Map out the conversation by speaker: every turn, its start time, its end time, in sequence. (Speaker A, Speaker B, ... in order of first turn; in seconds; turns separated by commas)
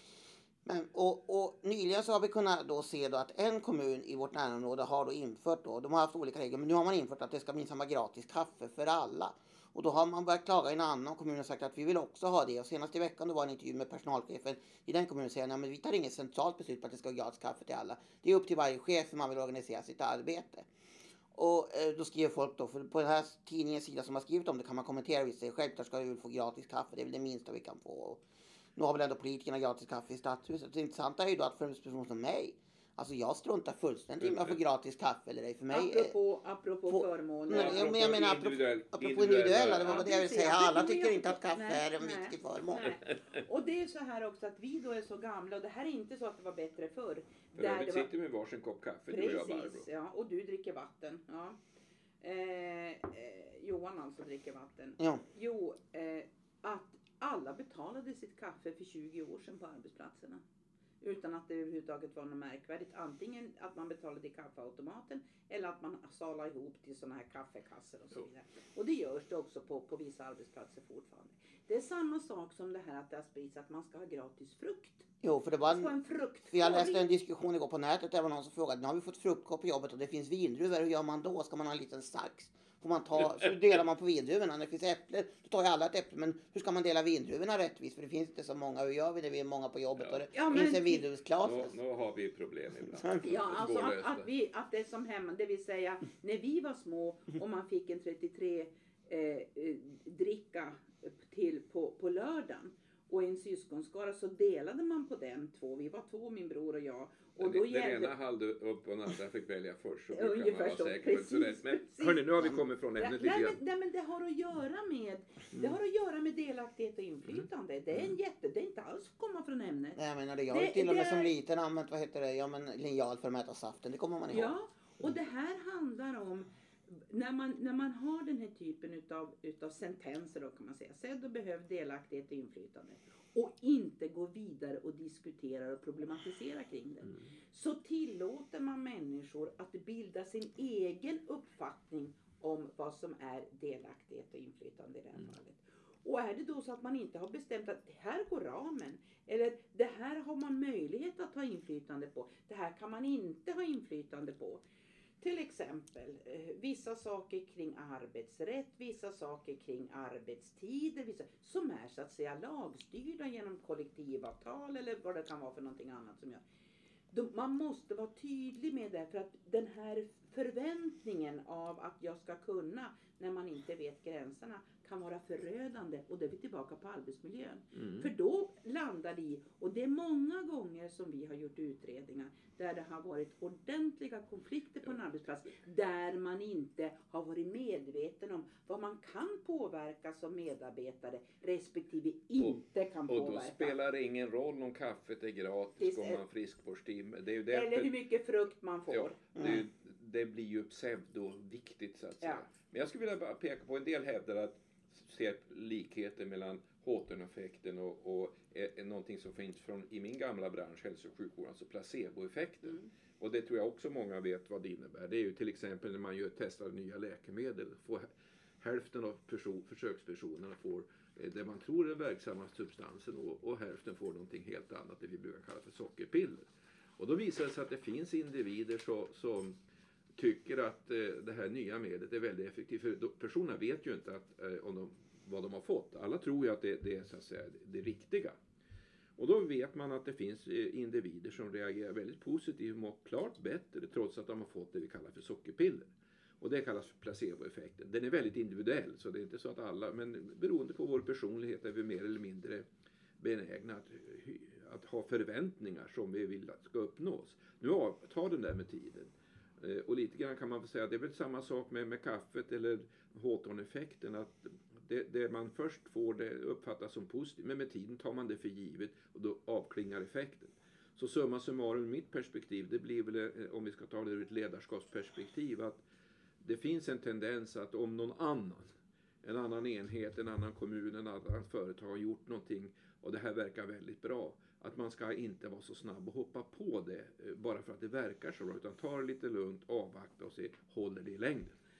Speaker A: 0.6-20.7, Speaker A: 21.3-28.2, Speaker A: 28.8-36.1, Speaker B: 34.2-34.6, Speaker C: 35.7-37.9, Speaker A: 36.9-42.9, Speaker B: 37.5-40.1, Speaker C: 39.8-48.1, Speaker B: 47.5-49.9, Speaker C: 49.1-51.6, Speaker C: 52.2-60.4, Speaker C: 61.0-75.1, Speaker A: 75.2-75.9, Speaker C: 75.7-77.1, Speaker A: 76.5-91.7, Speaker B: 90.0-90.7, Speaker C: 90.3-91.1, Speaker B: 91.4-94.3, Speaker C: 93.2-108.1, Speaker B: 107.4-113.6, Speaker C: 110.1-121.3, Speaker A: 120.0-124.5, Speaker C: 124.3-154.6, Speaker C: 155.2-166.4, Speaker C: 167.1-193.8, Speaker B: 177.8-178.0, Speaker B: 192.4-197.9, Speaker C: 195.8-196.2, Speaker C: 197.5-199.2, Speaker B: 198.9-218.1, Speaker B: 218.6-229.5, Speaker B: 230.2-238.4, Speaker B: 239.2-252.7, Speaker B: 253.2-275.8, Speaker B: 276.4-291.6